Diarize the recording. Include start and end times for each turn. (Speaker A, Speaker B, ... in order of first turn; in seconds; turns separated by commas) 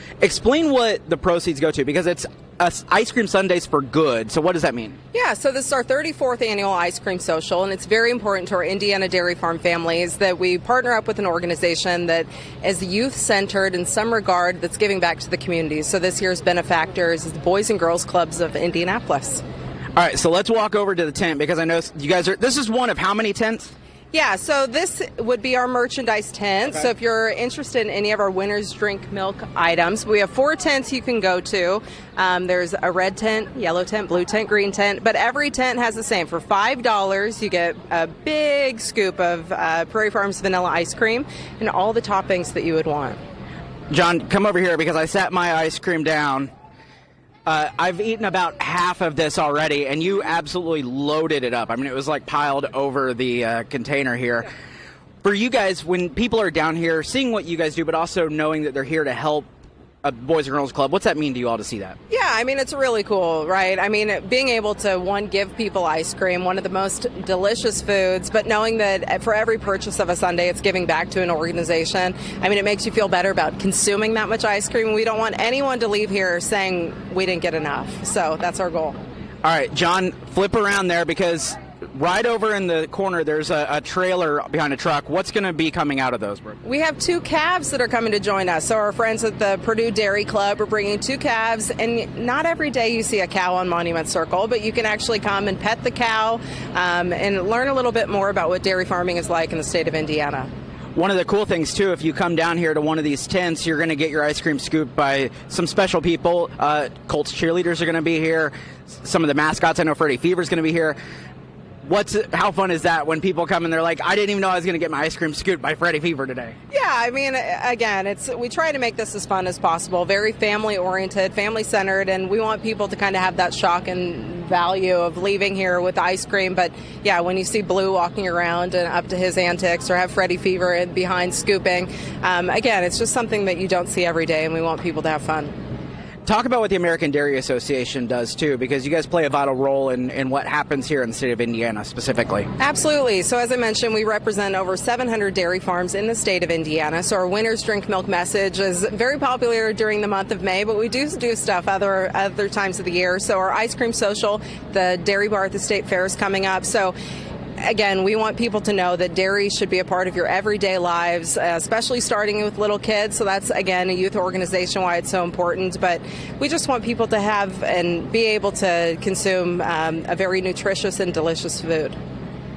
Speaker A: 0.2-5.0, Speaker B: 5.1-19.4, Speaker A: 20.0-23.7, Speaker B: 24.1-43.2, Speaker A: 43.9-46.5, Speaker A: 47.5-54.5, Speaker A: 55.2-59.5, Speaker A: 60.0-62.0, Speaker B: 62.1-79.0, Speaker A: 79.4-86.6, Speaker B: 86.7-100.5, Speaker A: 101.0-111.0, Speaker A: 111.8-116.6, Speaker B: 116.7-135.5, Speaker A: 136.3-142.5, Speaker B: 142.6-156.9, Speaker B: 157.6-171.9